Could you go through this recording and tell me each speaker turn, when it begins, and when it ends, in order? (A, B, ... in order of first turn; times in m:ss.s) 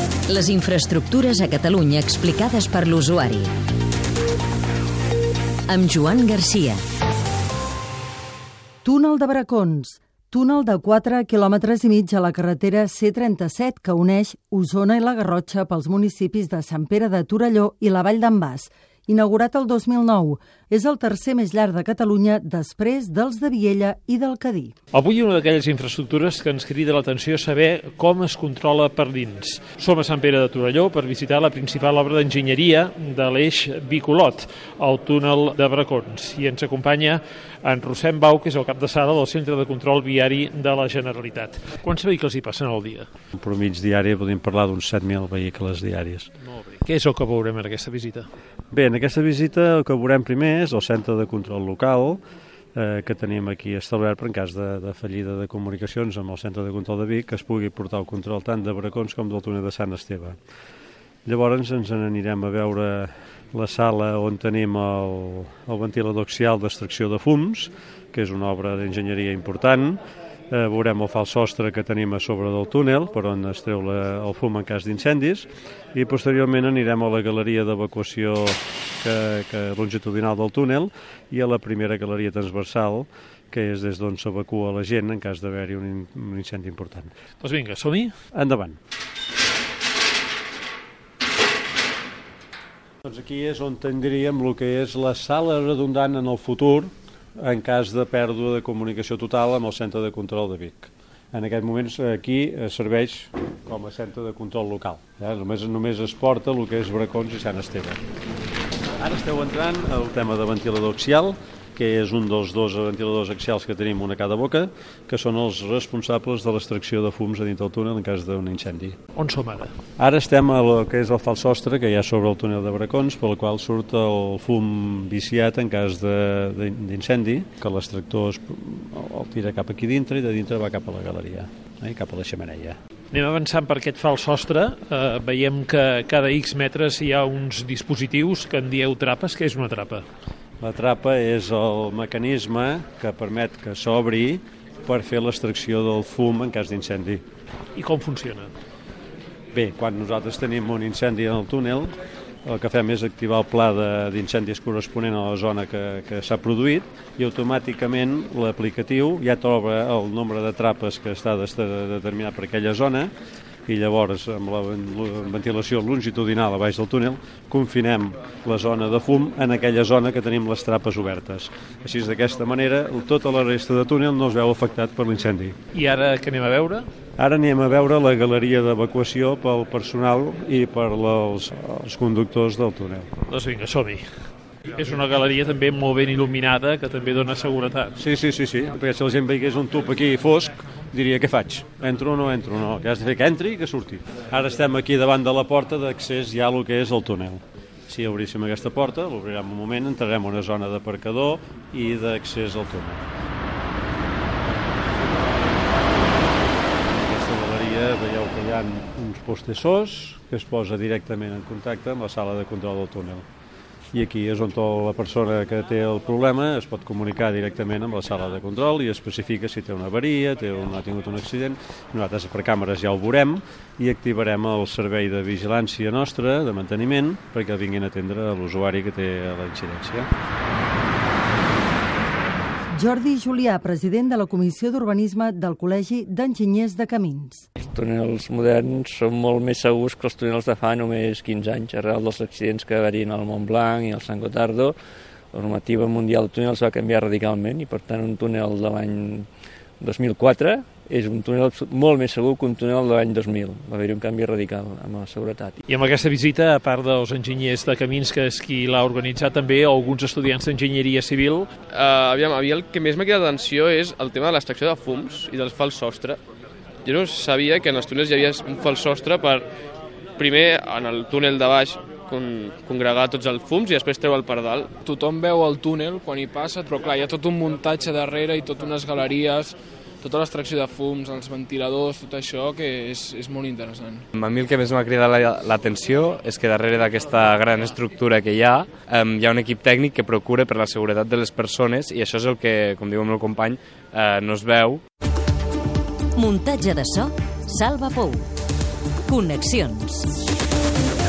0:00.3-0:03.5 A
0:05.7-0:06.8 A
0:08.8-0:24.7 B
0:24.9-0:43.1 C
0:43.4-0:46.3 D
0:46.6-0:48.3 C
0:48.7-0:52.2 D
0:52.8-1:00.4 D
1:01.2-1:10.0 D
1:10.5-1:27.1 D
1:27.4-1:28.1 C
1:28.3-1:28.8 D
1:33.0-1:48.0 D
1:49.0-1:59.0 D
1:59.2-1:59.7 C
2:00.0-2:12.8 D
2:13.1-2:20.0 C
2:20.6-2:27.2 D
2:27.8-2:28.5 C
2:29.5-2:31.9 D
2:32.4-2:43.1 D
2:43.7-2:55.6 D
2:55.7-2:56.9 C
2:57.2-3:03.1 D
3:03.3-3:04.0 C
3:04.8-3:08.0 C
3:08.0-3:23.0 D
3:26.9-3:33.2 D
3:33.9-3:50.1 D
3:52.7-3:57.4 B
3:57.6-4:04.8 E
4:05.3-4:09.3 E
4:09.8-4:15.6 E
4:15.7-4:21.5 C
4:21.7-4:26.2 F
4:26.8-4:29.4 F
4:30.2-4:34.7 F
4:34.8-4:44.0 G
4:44.1-4:54.8 H
4:56.2-4:58.2 A
4:59.1-5:00.0 A